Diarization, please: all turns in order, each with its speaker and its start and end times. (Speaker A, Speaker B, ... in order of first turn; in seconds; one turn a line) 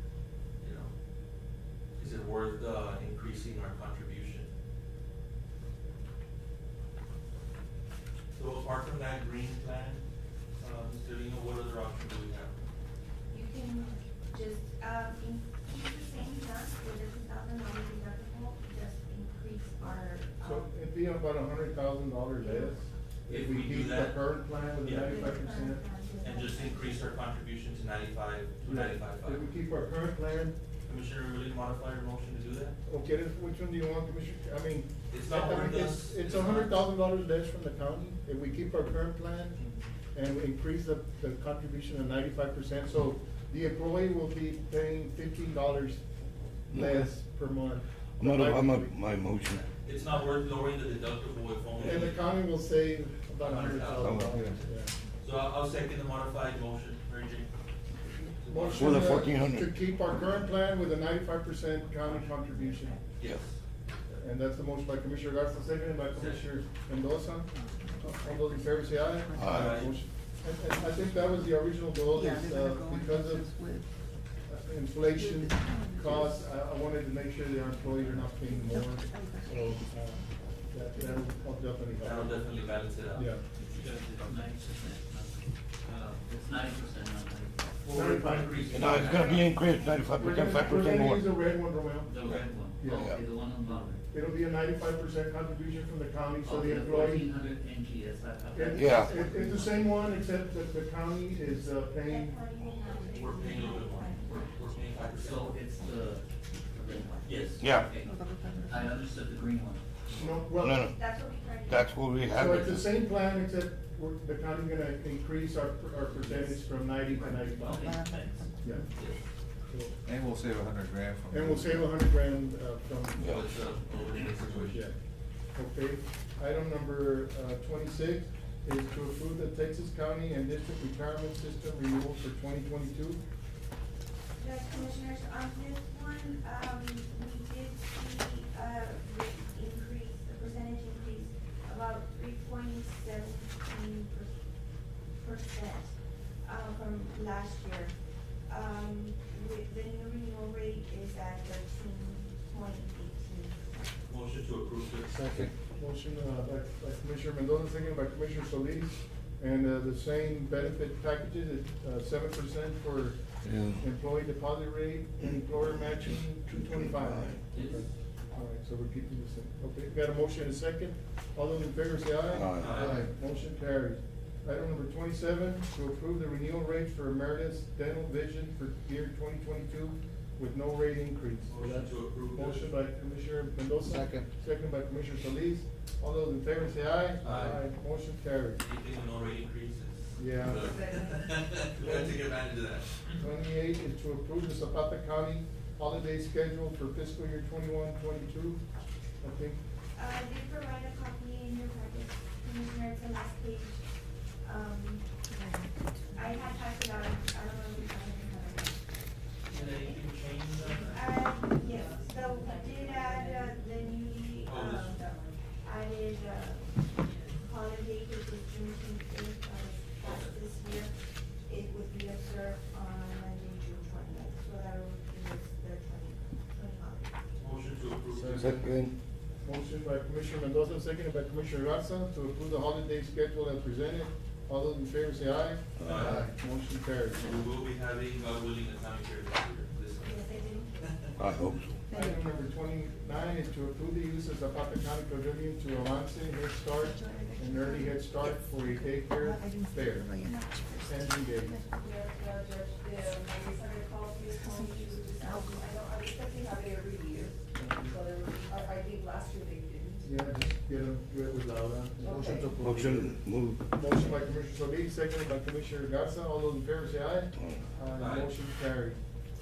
Speaker A: 0.6-0.9
Speaker A: 1.9-4.5
Speaker A: 8.3-10.0
Speaker A: 10.6-12.6
Speaker B: 13.3-20.7
Speaker C: 20.4-25.8
Speaker B: 22.4-22.8
Speaker A: 23.3-24.2
Speaker A: 24.8-25.2
Speaker B: 25.0-27.2
Speaker A: 26.2-29.4
Speaker C: 28.6-30.6
Speaker A: 30.9-32.7
Speaker C: 32.9-39.6
Speaker A: 35.1-36.8
Speaker A: 39.6-39.9
Speaker C: 40.1-46.0
Speaker C: 46.7-49.1
Speaker D: 46.7-47.1
Speaker D: 48.2-49.7
Speaker A: 49.8-52.4
Speaker C: 51.8-54.9
Speaker A: 53.4-57.5
Speaker D: 54.0-54.5
Speaker A: 58.3-59.4
Speaker C: 58.4-63.0
Speaker D: 58.8-59.7
Speaker B: 62.5-63.1
Speaker A: 63.2-64.2
Speaker C: 64.2-73.6
Speaker A: 66.1-66.5
Speaker E: 67.5-69.9
Speaker D: 69.4-69.7
Speaker A: 69.5-70.0
Speaker E: 70.7-71.3
Speaker E: 72.1-74.0
Speaker C: 74.4-82.4
Speaker E: 75.1-76.5
Speaker E: 78.3-80.3
Speaker E: 80.9-81.3
Speaker A: 82.0-83.3
Speaker C: 83.1-83.4
Speaker E: 83.6-83.9
Speaker F: 83.7-87.7
Speaker C: 87.8-89.2
Speaker A: 87.8-89.6
Speaker D: 88.7-91.3
Speaker C: 90.2-97.3
Speaker F: 92.0-94.0
Speaker F: 96.4-100.1
Speaker C: 98.5-102.4
Speaker D: 98.8-99.2
Speaker B: 102.0-104.5
Speaker A: 103.0-105.6
Speaker F: 104.9-109.8
Speaker B: 106.8-107.5
Speaker A: 107.2-107.6
Speaker D: 107.6-107.9
Speaker E: 108.0-109.0
Speaker C: 110.1-110.9
Speaker D: 110.6-110.9
Speaker B: 110.9-112.0
Speaker D: 111.7-112.9
Speaker C: 112.3-118.0
Speaker F: 117.2-118.5
Speaker E: 117.7-118.4
Speaker C: 118.6-118.9
Speaker A: 118.9-119.2
Speaker C: 119.7-120.0
Speaker G: 120.0-122.0
Speaker C: 121.3-123.4
Speaker D: 123.2-123.5
Speaker A: 123.2-124.9
Speaker C: 124.7-125.0
Speaker C: 125.5-133.2
Speaker B: 134.4-144.4
Speaker B: 145.1-147.9
Speaker B: 148.5-154.0
Speaker A: 154.1-155.4
Speaker C: 155.7-163.2
Speaker D: 163.4-163.8
Speaker C: 163.7-188.6
Speaker D: 166.4-167.4
Speaker A: 167.5-167.9
Speaker D: 172.3-172.8
Speaker A: 172.6-173.1
Speaker A: 181.5-182.7
Speaker G: 183.9-184.2
Speaker A: 187.2-187.6
Speaker A: 188.6-193.1
Speaker C: 190.2-190.8
Speaker H: 190.7-191.2
Speaker C: 191.8-192.2
Speaker C: 193.2-198.6
Speaker C: 199.2-199.6
Speaker B: 199.9-203.8
Speaker B: 204.4-205.1
Speaker E: 205.3-206.7
Speaker B: 206.1-210.0
Speaker A: 209.5-211.0
Speaker B: 210.7-227.2
Speaker H: 211.4-214.0
Speaker A: 214.4-215.0
Speaker H: 214.9-215.4
Speaker A: 220.0-220.3
Speaker A: 227.3-228.7
Speaker C: 228.1-228.7
Speaker D: 228.4-228.9
Speaker C: 229.4-237.4
Speaker D: 235.8-236.1
Speaker A: 235.8-236.3
Speaker A: 237.1-241.2
Speaker B: 240.0-241.5
Speaker D: 241.2-241.9
Speaker E: 241.9-242.3
Speaker C: 241.9-250.2
Speaker E: 246.8-251.9
Speaker C: 250.8-251.6
Speaker H: 251.7-260.1
Speaker E: 254.4-255.7
Speaker C: 257.6-258.0
Speaker C: 260.0-263.2
Speaker H: 262.0-262.5
Speaker D: 262.6-263.8
Speaker C: 263.7-269.0
Speaker A: 268.0-268.3